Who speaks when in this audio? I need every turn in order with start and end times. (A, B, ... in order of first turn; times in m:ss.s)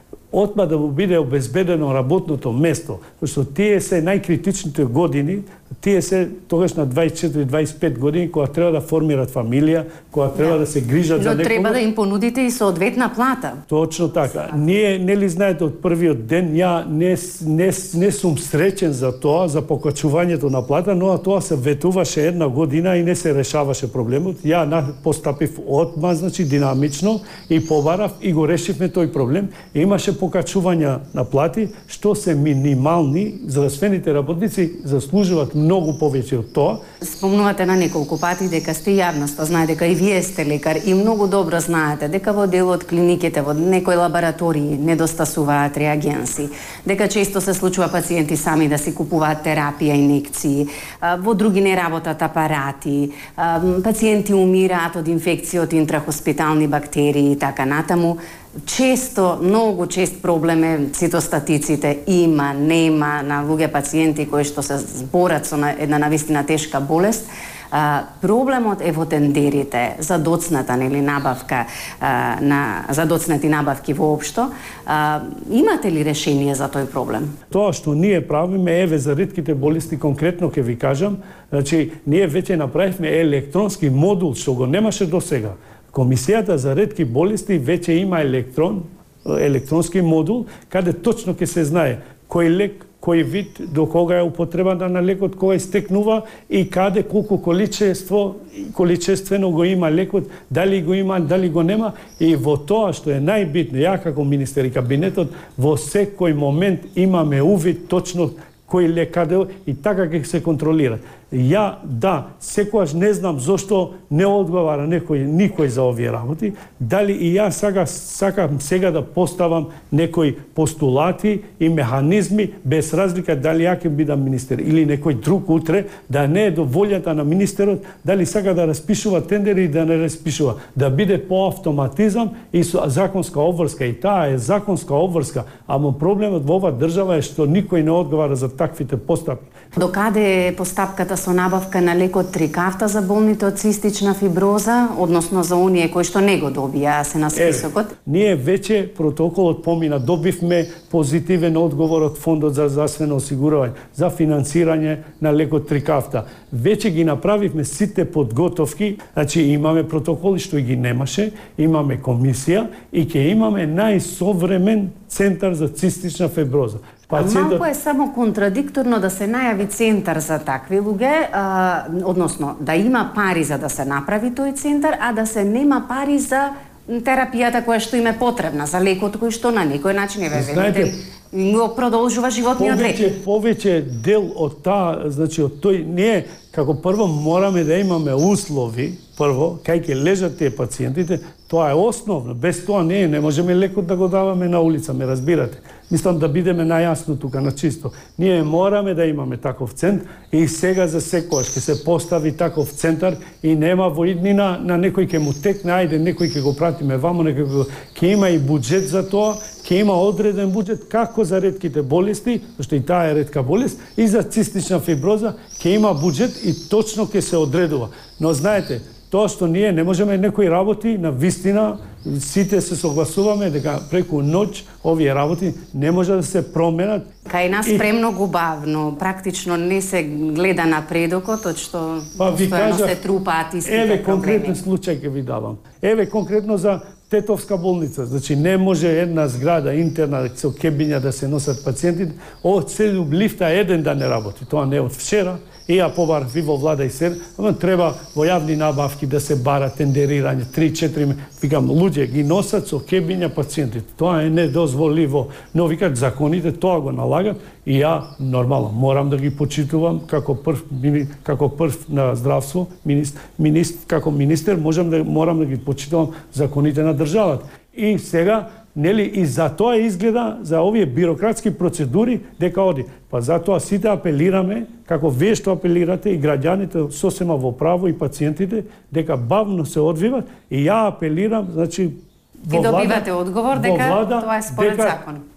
0:00.3-0:11.8 A
0:11.2-0:13.6 B
0:13.7-0:36.8 A
0:37.0-1:17.3 B
1:17.5-2:19.5 A
2:19.7-2:27.9 B
2:27.3-2:47.6 A
2:47.1-3:03.0 B
3:00.3-3:00.9 A
3:02.6-3:47.1 A
3:47.2-3:54.6 B
3:52.2-3:53.0 A
3:53.6-4:45.0 A
4:42.5-4:45.2 B